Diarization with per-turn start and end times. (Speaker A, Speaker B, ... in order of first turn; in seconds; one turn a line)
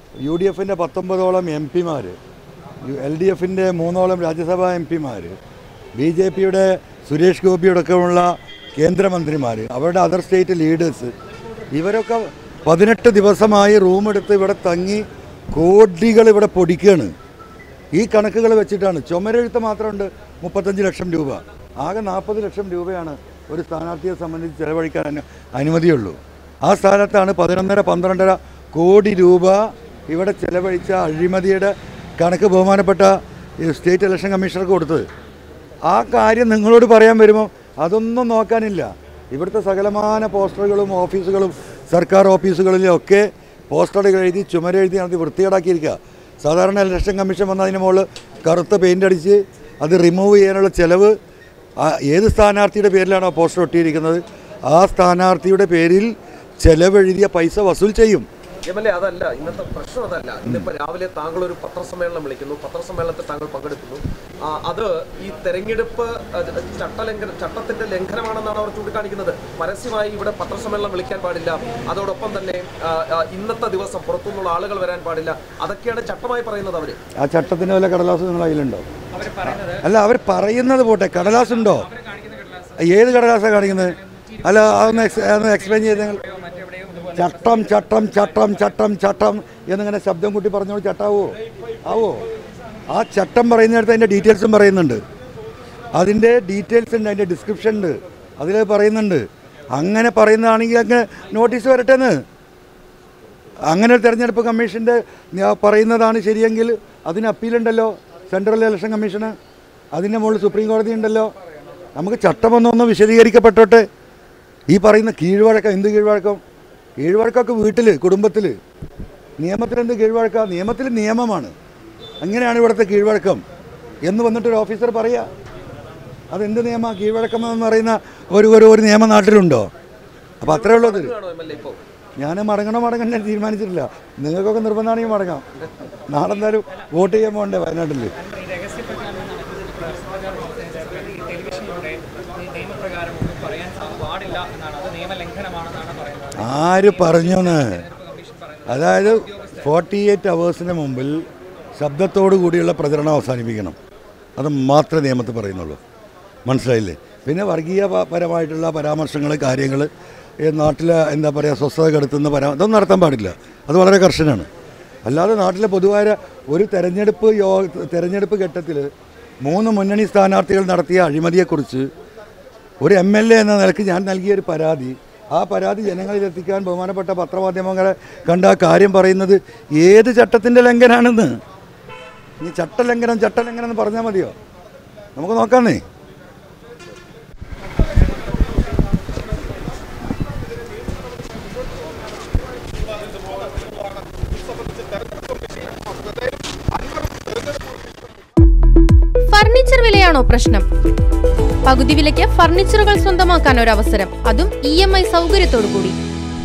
Speaker A: 0.2-2.2
Speaker A: 2.8-5.3
Speaker A: 6.0-11.1
Speaker A: 11.7-17.1
Speaker A: 17.9-33.1
Speaker A: 33.6-35.0
Speaker A: 35.9-51.1
Speaker A: 51.8-56.1
Speaker A: 56.6-58.3
Speaker B: 58.7-77.0
Speaker A: 77.2-78.9
Speaker C: 79.2-79.8
Speaker A: 79.7-81.9
Speaker C: 82.0-82.8
Speaker A: 82.8-86.2
Speaker C: 85.1-87.5
Speaker A: 87.2-92.2
Speaker A: 92.9-95.0
Speaker A: 95.9-102.1
Speaker A: 103.7-109.3
Speaker A: 109.9-111.3
Speaker A: 112.0-113.8
Speaker A: 114.7-116.4
Speaker A: 117.0-118.5
Speaker A: 119.4-121.5
Speaker A: 122.2-123.4
Speaker A: 124.0-125.3
Speaker A: 126.3-129.7
Speaker A: 130.4-131.1
Speaker B: 130.4-131.8
Speaker A: 132.2-135.4
Speaker A: 136.1-138.1
Speaker C: 138.3-146.3
Speaker A: 146.4-147.8
Speaker C: 147.9-148.7
Speaker A: 148.7-151.2
Speaker A: 151.8-153.8
Speaker A: 154.4-155.8
Speaker A: 156.4-159.9
Speaker A: 160.4-164.5
Speaker A: 165.1-168.9
Speaker A: 169.4-171.9
Speaker A: 172.8-181.3
Speaker A: 182.4-184.3
Speaker A: 185.2-185.8
Speaker D: 199.3-200.7
Speaker D: 201.6-206.0